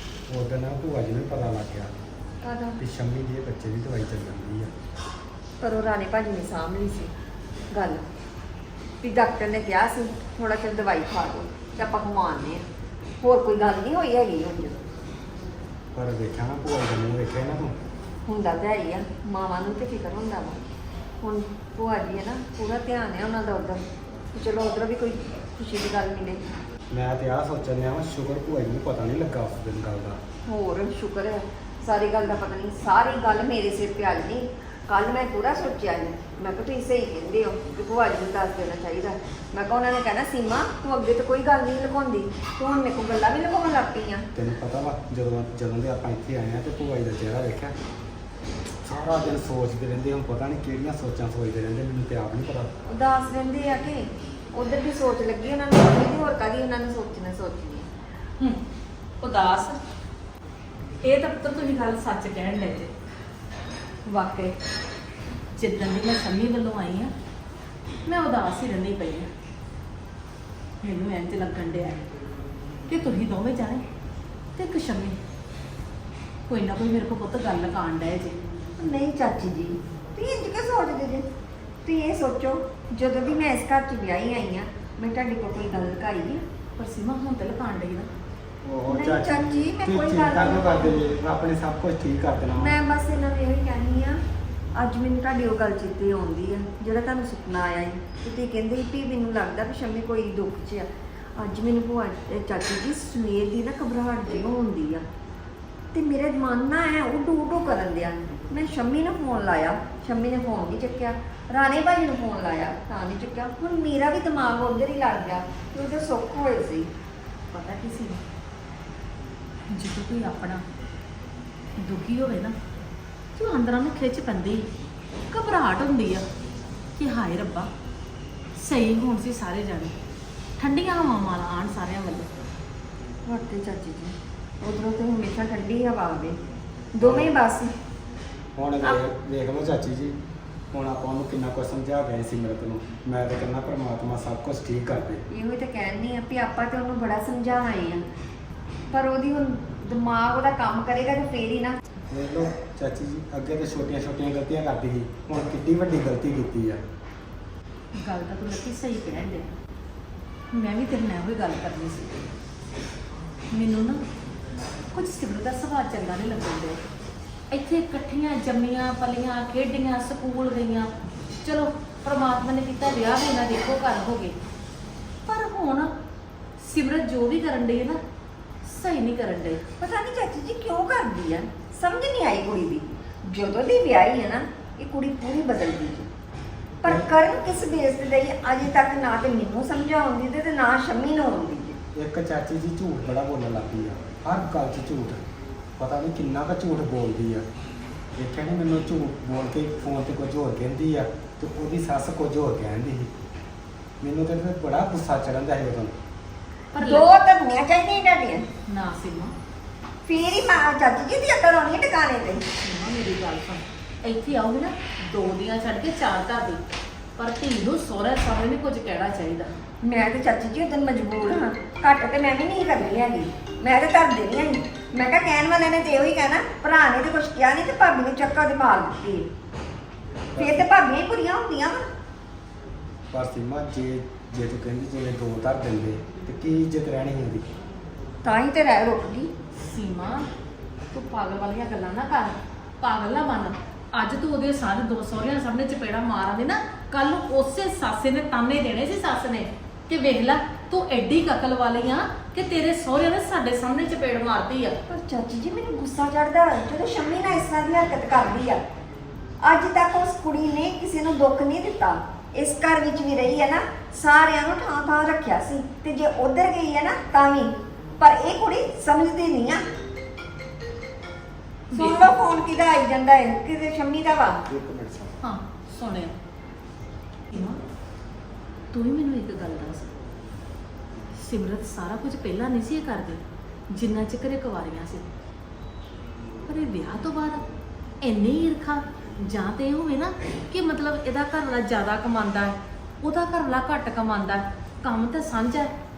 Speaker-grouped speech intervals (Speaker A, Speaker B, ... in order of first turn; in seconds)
Speaker A: 0.3-1.9, 2.8-4.7, 15.9-17.8, 26.9-30.2, 44.3-47.7, 48.8-52.7, 88.6-92.8, 137.0-137.3, 138.6-140.2, 140.7-145.2, 152.1-156.8, 191.9-195.2, 195.8-197.4, 198.2-203.1, 204.0-205.9, 230.3-230.7, 233.1-237.5, 274.4-275.1
Speaker B: 2.4-2.8, 5.6-7.1, 7.7-8.1, 9.0-12.7, 13.2-14.8, 18.2-20.6, 21.2-26.4, 30.5-44.3, 52.9-57.9, 78.8-81.3, 81.8-86.4, 88.9-91.0, 92.6-94.2, 94.7-105.0, 105.9-116.9, 133.2-136.4, 136.9-137.7, 145.3-148.0, 148.9-151.8, 179.8-186.1, 186.8-191.8, 206.8-208.5, 210.0-212.4, 219.8-229.3, 230.3-231.9, 238.2-239.3, 254.9-258.6, 259.4-269.6, 271.7-274.4
Speaker C: 59.2-59.8, 61.0-62.9, 64.1-64.6, 65.5-67.1, 68.0-69.3, 70.8-72.1, 72.9-73.8, 74.5-75.2, 76.5-78.4, 86.8-88.1, 117.5-118.2, 119.7-120.7, 121.8-122.5, 123.3-124.7, 125.3-126.2, 127.0-127.7, 128.6-130.0, 130.6-132.4, 158.0-159.5, 160.5-162.2, 163.5-164.1, 164.9-166.8, 167.5-170.9, 171.4-174.3, 175.2-175.9, 176.6-178.0, 178.6-179.6, 206.7-207.1, 208.7-209.3, 212.6-216.6, 217.2-219.5, 239.6-240.3, 240.9-254.8, 271.7-272.1, 275.2-276.2, 277.3-277.6, 278.7-279.9, 281.1-285.1, 286.4-287.4, 288.0-295.7